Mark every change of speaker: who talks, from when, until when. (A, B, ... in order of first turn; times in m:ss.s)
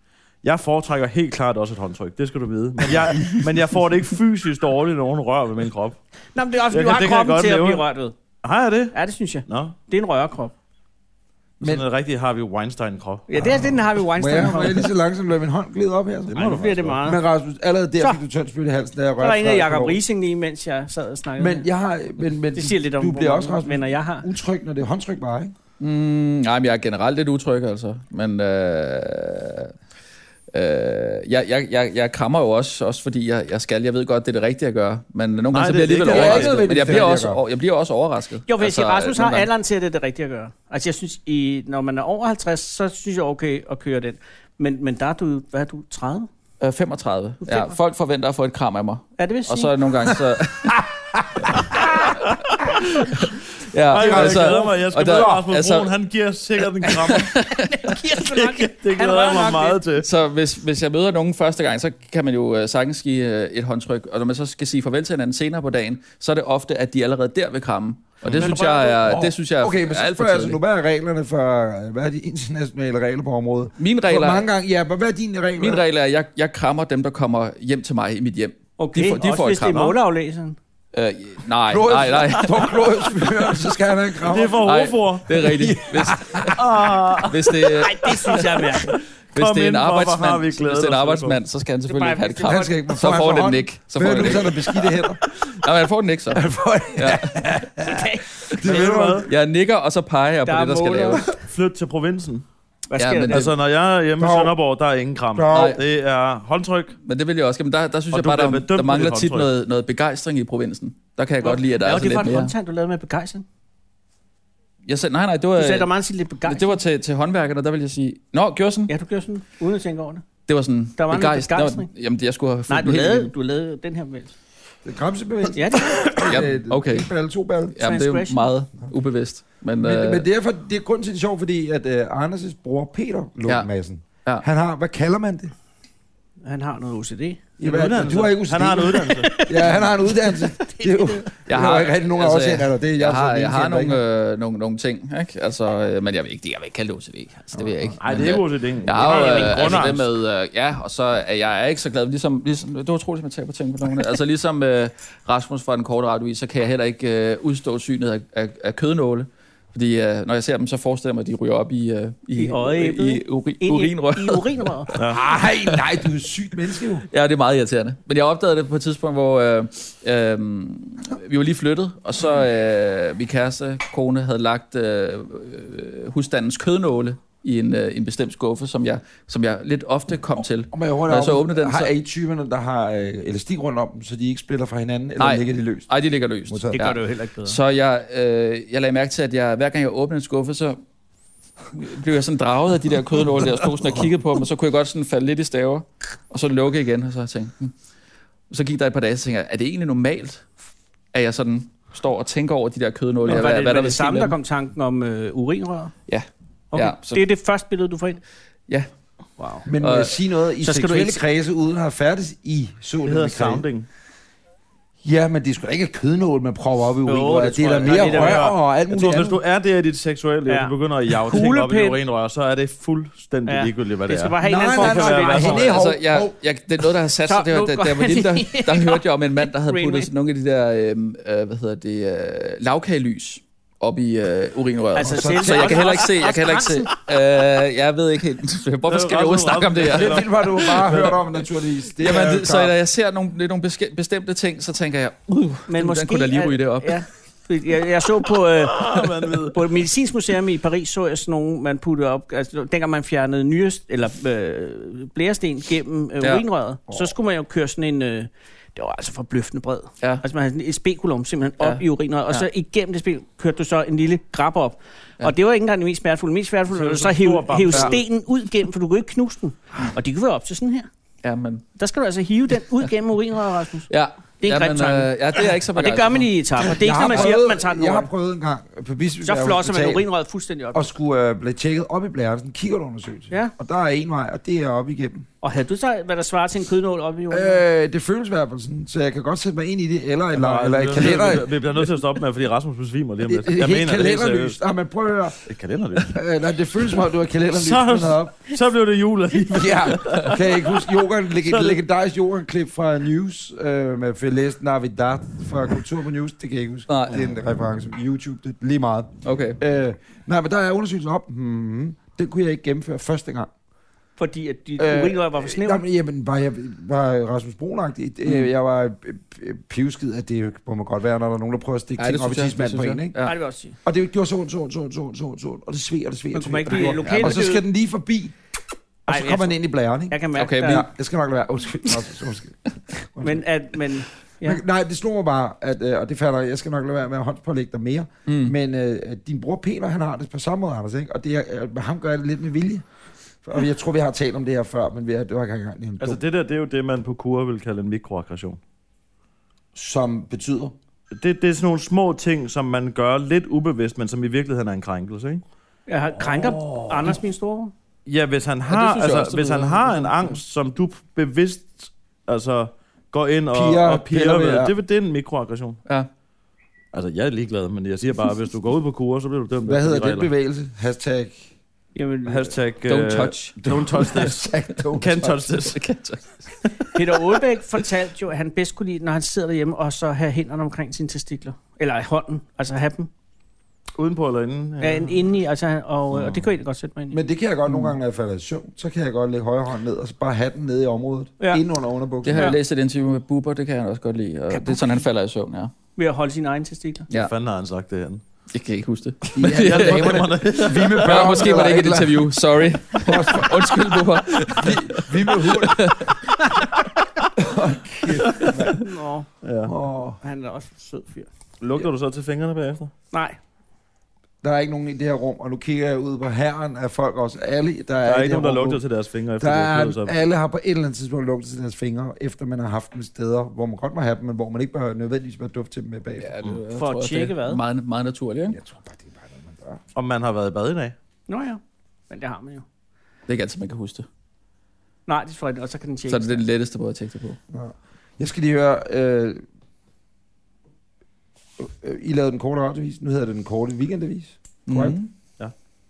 0:00.4-0:06.0 A
0:06.3-0:08.1 B
0:06.7-0:07.8 A
0:08.4-0:08.9 A
0:08.9-0:10.5 B
0:09.4-0:09.8 A
0:11.6-0:13.3 A
0:13.3-0:14.9 B
0:13.4-0:20.0 C
0:16.3-0:17.0 A
0:16.4-0:17.2 B
0:19.2-0:21.6 B
0:21.4-0:25.5 C
0:22.5-0:24.3 B
0:25.8-0:29.7 D
0:30.5-0:39.5 D
0:35.5-0:37.0 A
0:36.0-0:37.4 C
0:38.5-0:46.3 B
0:46.6-0:50.8 D
0:47.4-0:47.7 B
0:49.2-0:49.7 B
0:51.3-0:52.2 C
0:52.6-0:55.9 D
0:53.9-0:57.3 A
0:53.9-0:55.4 C
0:57.0-0:58.0 D
0:57.6-0:59.8 B
0:58.2-1:00.1 A
1:00.0-1:10.6 D
1:08.2-1:15.8 C
1:08.4-1:08.9 B
1:13.8-1:14.4 D
1:15.6-1:19.9 D
1:18.8-1:20.6 B
1:20.9-1:22.8 D
1:21.7-1:24.8 C
1:24.2-1:25.6 A
1:24.6-1:26.6 D
1:25.4-1:26.6 C
1:26.5-1:27.7 A
1:27.2-1:28.8 D
1:27.7-1:28.9 B
1:29.3-1:31.4 A
1:29.3-1:34.8 D
1:31.9-1:32.7 B
1:32.4-1:35.2 C
1:35.5-1:37.6 D
1:36.3-1:39.3 C
1:37.8-1:38.2 B
1:38.6-1:39.3 A
1:39.2-1:41.3 D
1:40.4-1:41.4 B
1:41.3-1:42.4 A
1:42.9-1:43.5 B
1:43.0-1:43.5 D
1:43.3-1:47.0 A
1:44.2-1:44.6 C
1:45.3-1:45.8 C
1:45.5-1:45.8 D
1:47.0-1:52.5 D
1:48.1-1:49.5 A
1:51.4-1:53.4 B
1:54.8-1:55.9 D
1:55.6-1:56.7 B
1:56.4-1:58.9 D
1:58.9-2:00.2 B
2:00.5-2:03.3 D
2:01.0-2:01.9 B
2:02.7-2:04.3 B
2:04.8-2:07.8 C
2:05.5-2:06.4 B
2:06.2-2:07.1 D
2:07.7-2:10.2 D
2:07.8-2:08.5 B
2:09.8-2:15.5 C
2:16.4-2:17.4 B
2:17.6-2:24.0 C
2:17.6-2:19.4 A
2:18.9-2:21.3 B
2:21.5-2:45.0 D
2:27.6-2:27.9 C
2:28.0-2:30.1 A
2:29.0-2:29.9 B
2:42.4-2:44.9 B
2:44.9-2:45.2 A
2:45.0-2:47.0 C
2:47.1-3:01.9 D
3:00.7-3:05.9 C
3:05.2-3:10.8 D
3:06.5-3:06.8 C
3:06.7-3:07.6 B
3:11.7-3:17.7 D
3:18.5-3:20.5 D
3:21.1-3:24.4 D
3:23.2-3:25.9 B
3:26.1-3:27.2 D
3:26.7-3:28.2 B
3:29.4-3:29.7 B
3:29.6-3:33.6 C
3:29.8-3:30.1 D
3:30.6-3:31.2 B
3:33.0-3:33.9 A
3:35.0-3:39.4 C
3:37.0-3:38.5 B
3:37.8-3:45.7 A
3:40.5-3:42.0 B
3:43.5-3:45.7 B
3:44.4-3:46.3 C
3:45.4-4:00.8 D
3:47.2-3:50.1 B
3:54.9-3:56.9 B
3:55.0-3:56.0 C
3:58.9-4:01.2 A
3:59.9-4:02.8 C
4:02.0-4:07.0 D
4:05.7-4:30.9 B
4:08.5-4:09.6 A
4:21.6-4:22.4 D
4:26.7-4:28.0 A
4:31.2-4:31.6 D
4:31.8-4:38.1 B
4:33.9-4:36.3 D
4:36.6-4:40.0 C
4:39.2-4:40.9 B
4:40.7-4:45.2 C
4:45.4-4:47.6 B
4:47.3-4:51.9 C
4:50.3-4:54.6 A
4:53.2-4:55.4 C
4:55.5-4:56.2 A
4:56.0-4:58.4 C
4:57.5-5:00.9 A
4:59.5-5:13.5 C
5:01.4-5:01.8 A
5:06.9-5:07.3 D
5:09.2-5:09.6 D
5:14.2-5:15.8 B
5:14.8-5:23.2 C
5:22.0-5:23.3 D
5:23.2-5:23.8 B
5:23.8-5:28.3 C
5:26.3-5:27.6 B
5:26.7-5:27.4 D
5:29.1-5:29.5 B
5:29.1-5:33.4 C
5:30.1-5:30.9 B
5:30.3-5:30.8 D
5:33.2-5:34.6 B
5:34.4-5:42.8 C
5:38.3-5:38.5 D
5:43.4-5:46.2 C
5:46.0-5:48.6 A
5:49.7-5:50.7 C
5:51.1-5:55.4 A
5:55.9-5:57.7 B
5:56.3-5:57.1 C
5:58.0-6:05.8 A
5:58.9-5:59.4 D
6:03.5-6:04.7 C
6:06.9-6:10.3 A
6:09.6-6:11.5 C
6:11.9-6:12.5 B
6:12.2-6:15.8 A
6:12.9-6:13.6 D
6:13.6-6:15.5 C
6:15.6-6:16.3 D
6:16.9-6:23.1 B
6:24.0-6:25.3 A
6:24.8-6:27.2 B
6:26.1-6:26.4 A
6:27.1-6:32.6 C
6:27.7-6:27.9 D
6:32.2-6:35.7 D
6:32.3-6:32.6 B
6:34.5-6:35.0 B
6:36.0-6:37.1 B
6:37.1-6:38.2 A
6:38.5-6:46.2 D
6:39.3-6:42.4 C
6:39.4-6:41.6 A
6:42.9-6:46.1 C
6:47.4-6:48.8 C
6:48.4-6:48.7 D
6:48.7-6:49.3 B
6:49.4-6:49.7 A
6:49.6-6:50.2 C
6:50.2-6:51.3 B
6:51.6-6:52.9 A
6:53.1-6:53.4 B
6:54.4-6:58.8 C
6:58.0-7:00.2 A
6:59.4-7:06.3 C
7:06.2-7:08.6 D
7:06.7-7:07.6 B
7:08.5-7:09.8 C
7:09.9-7:10.9 A
7:11.3-7:12.6 B
7:13.3-7:14.1 D
7:15.1-7:16.4 B
7:16.1-7:17.4 D
7:17.5-7:19.4 C
7:21.6-7:25.0 C
7:24.7-7:25.1 D